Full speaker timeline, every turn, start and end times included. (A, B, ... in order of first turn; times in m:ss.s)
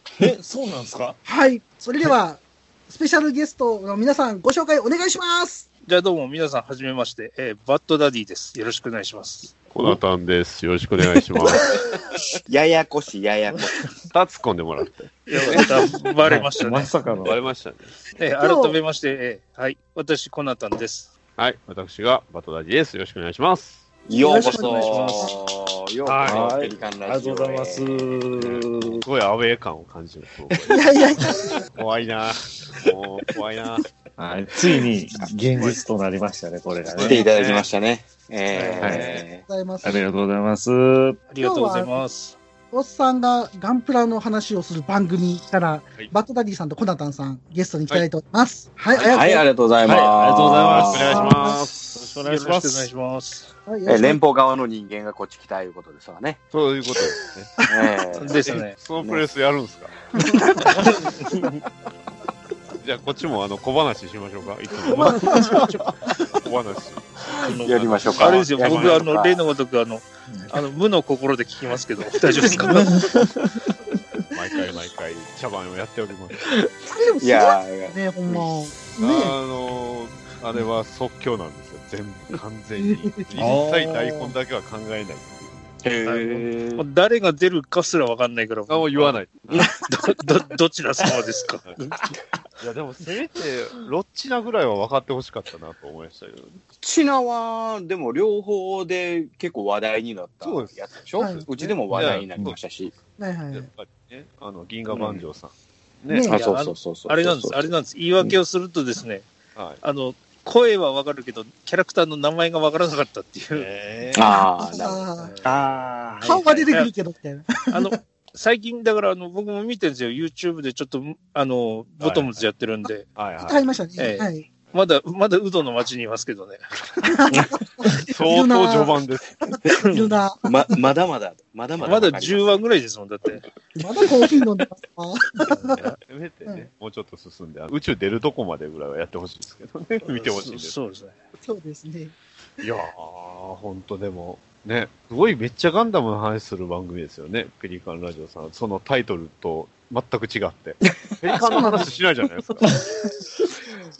0:00.2-0:01.2 A
0:01.2-0:05.6 B
0:05.8-0:09.5 C
0:09.7-0:11.7 D
0:12.4-0:13.8 E
0:14.1-0:15.7 D
0:15.3-0:16.9 C
0:16.2-0:17.5 A
0:17.2-0:18.0 D
0:18.2-0:21.1 C
0:18.4-0:18.8 B
0:21.4-0:23.9 D
0:24.1-0:28.2 E
0:24.1-0:25.3 B
0:24.2-0:25.3 C
0:26.0-0:26.5 D
0:26.2-0:29.0 A
0:28.4-0:31.0 D
0:30.7-0:31.5 B
0:31.7-0:33.9 D
0:34.2-0:37.3 A
0:35.5-0:35.8 D
0:36.8-0:37.7 D
0:37.0-0:39.4 E
0:38.5-0:38.8 C
0:38.8-0:39.2 D
0:38.8-0:39.1 A
0:39.2-0:40.0 B
0:39.8-0:41.2 A
0:41.3-0:42.4 C
0:41.4-0:42.0 B
0:42.7-0:49.5 B
0:48.9-0:51.2 E
0:49.8-0:52.9 A
0:50.7-0:52.2 D
0:52.2-0:53.5 C
0:53.6-0:54.2 B
0:53.9-0:56.4 E
0:56.5-0:57.5 D
0:57.6-0:59.2 E
0:58.2-0:58.8 C
0:58.4-0:59.9 D
1:00.1-1:01.5 E
1:02.8-1:05.7 D
1:05.0-1:05.7 A
1:06.3-1:07.1 D
1:07.3-1:09.4 E
1:07.4-1:12.9 C
1:07.7-1:09.0 D
1:10.3-1:10.5 A
1:12.7-1:13.7 A
1:14.3-1:16.4 D
1:16.4-1:18.4 E
1:16.9-1:19.4 B
1:19.0-1:25.7 D
1:22.8-1:23.6 B
1:23.4-1:24.2 A
1:25.8-1:26.8 E
1:26.0-1:29.2 C
1:28.7-1:29.7 D
1:29.5-1:30.0 E
1:29.9-1:31.7 C
1:32.0-1:32.4 E
1:32.6-1:36.6 D
1:36.8-1:42.9 E
1:40.4-1:40.9 D
1:41.2-1:41.5 B
1:41.9-1:43.0 D
1:41.9-1:42.4 A
1:43.2-1:43.7 B
1:43.5-1:46.3 D
1:44.9-1:45.2 E
1:46.1-1:46.4 B
1:46.3-1:48.4 E
1:46.3-1:49.3 C
1:49.5-1:49.8 D
1:49.8-1:53.7 C
1:53.5-1:54.3 D
1:54.1-1:55.0 E
1:54.2-1:55.3 B
1:55.2-1:55.7 C
1:55.4-1:56.5 A
1:56.2-1:57.9 B
1:57.7-2:03.0 C
2:02.0-2:02.4 D
2:03.1-2:03.6 D
2:03.4-2:04.5 B
2:04.0-2:06.6 C
2:07.0-2:10.5 B
2:08.1-2:09.4 D
2:09.7-2:10.1 C
2:10.4-2:12.6 E
2:11.8-2:12.1 D
2:11.8-2:13.4 C
2:13.8-2:15.8 B
2:15.5-2:16.0 C
2:15.8-2:20.7 D
2:20.0-2:21.1 C
2:21.4-2:22.1 B
2:22.6-2:32.7 D
2:30.9-2:31.9 E
2:31.5-2:31.9 B
2:32.6-2:33.4 A